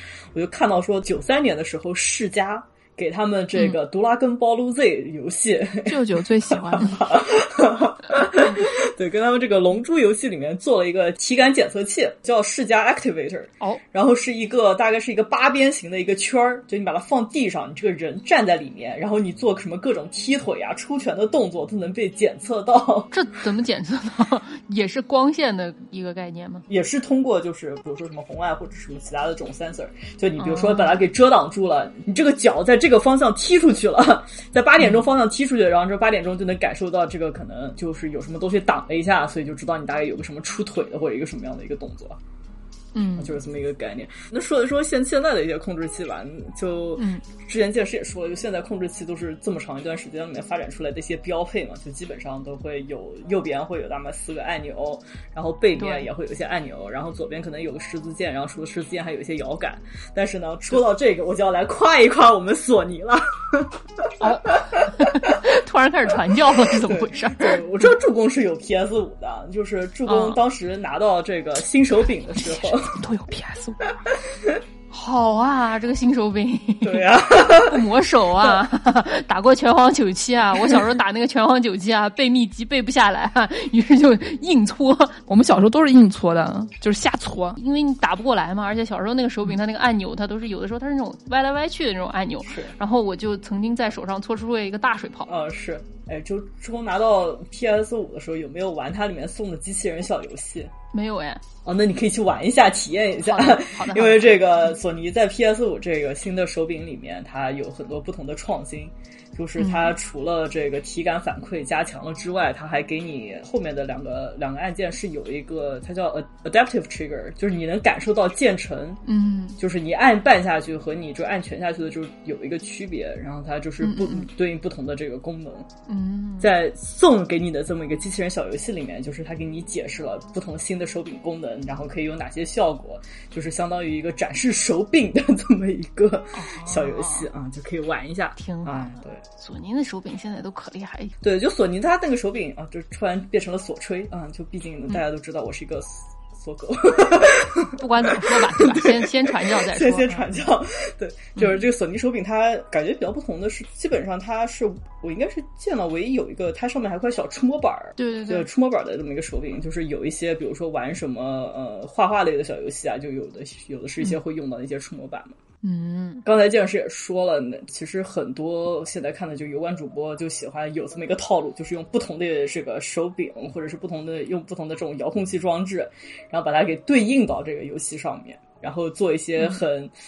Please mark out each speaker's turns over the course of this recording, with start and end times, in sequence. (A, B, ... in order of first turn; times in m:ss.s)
0:00.3-0:23.1 A
0:05.8-0:07.0 B
0:23.1-0:26.6 C
0:26.7-0:42.2 A
0:30.4-0:31.0 C
0:42.9-0:43.3 C
0:43.2-1:05.4 A
0:47.0-0:47.2 C
0:55.8-0:56.1 C
1:04.2-1:07.9 C
1:06.7-1:13.0 A
1:10.1-1:10.4 C
1:12.4-1:14.0 B
1:14.9-1:25.2 C
1:16.8-1:17.8 A
1:25.3-1:27.6 B
1:27.6-1:35.3 C
1:32.5-1:32.7 A
1:35.3-1:40.7 A
1:40.9-1:41.4 C
1:41.6-1:59.0 A
1:43.2-1:44.7 C
1:49.6-1:49.9 C
1:59.0-1:59.6 C
1:59.6-2:05.7 A
2:03.8-2:04.3 C
2:05.9-2:06.5 C
2:06.4-2:19.2 A
2:16.3-2:17.2 C
2:18.4-2:21.1 C
2:21.2-2:45.4 A
2:27.8-2:30.2 C
2:31.4-2:31.6 C
2:38.0-2:38.5 C
2:45.6-2:46.2 C
2:46.2-2:59.9 A